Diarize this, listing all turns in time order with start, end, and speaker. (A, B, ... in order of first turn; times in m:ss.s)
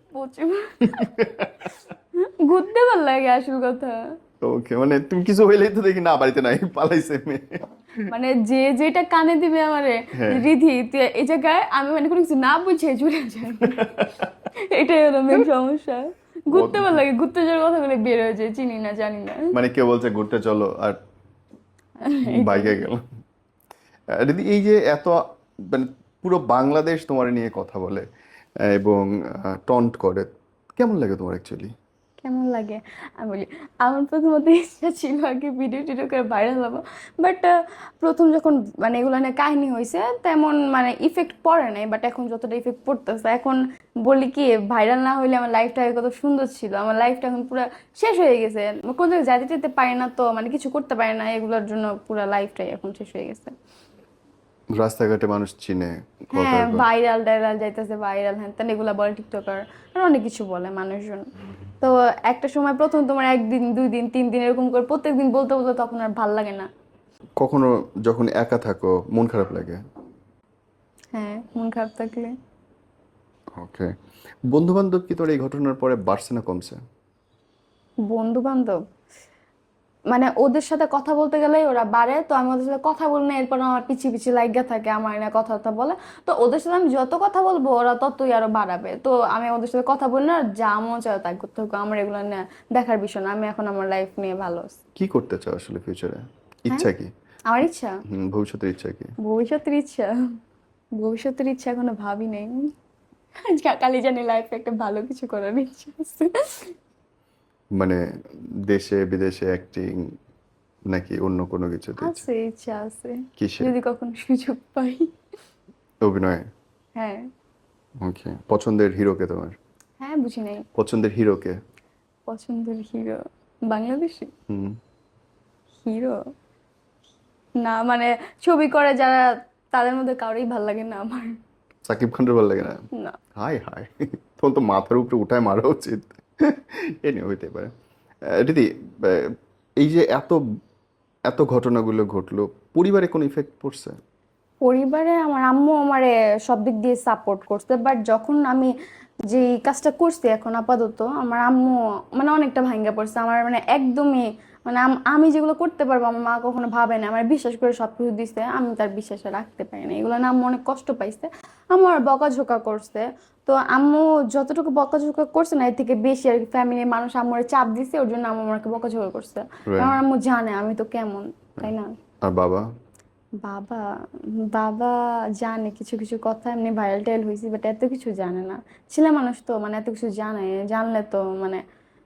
0:00.1-0:01.2 A
0:00.8-0:01.7 B
0:02.2-0:04.0 A
0:04.4-0:08.1 B
0:08.1-0:14.0 A
0:10.2-0:10.5 B
0:13.6-0:14.3 B
0:14.6-0:19.5 A
0:16.5-0:17.0 B
0:19.5-0:21.0 B
0:22.0-0:22.8 A
0:22.3-0:23.0 B
0:24.1-0:28.1 B
0:28.6-0:31.7 B
0:32.2-0:53.5 A
0:54.8-0:56.9 B
0:56.3-1:01.3 A
1:01.8-1:06.7 A
1:07.4-1:09.8 B
1:11.1-1:12.3 A
1:13.6-1:13.9 B
1:14.5-1:16.8 B
1:18.1-1:18.8 A
1:20.1-1:34.8 A
1:35.0-1:37.1 B
1:37.5-1:37.9 A
1:38.1-1:39.1 B
1:39.2-1:40.1 A
1:41.0-1:42.6 A
1:43.4-1:46.7 A
1:47.8-1:48.0 B
1:48.7-1:50.0 B
1:50.9-1:52.2 B
1:52.0-1:55.1 A
1:53.4-1:53.7 B
1:56.0-1:56.4 B
1:57.0-1:57.3 A
1:58.0-1:59.6 B
2:00.0-2:00.6 A
2:00.8-2:01.6 B
2:02.3-2:04.3 A
2:04.5-2:04.8 B
2:05.8-2:06.2 A
2:07.6-2:11.4 A
2:11.9-2:12.8 B
2:13.4-2:17.7 B
2:18.4-2:20.4 B
2:21.3-2:24.0 B
2:24.6-2:28.7 A
2:29.3-2:51.9 A
2:49.7-2:50.0 B
2:52.2-2:52.6 B
2:53.4-2:53.9 A
2:54.5-3:01.6 A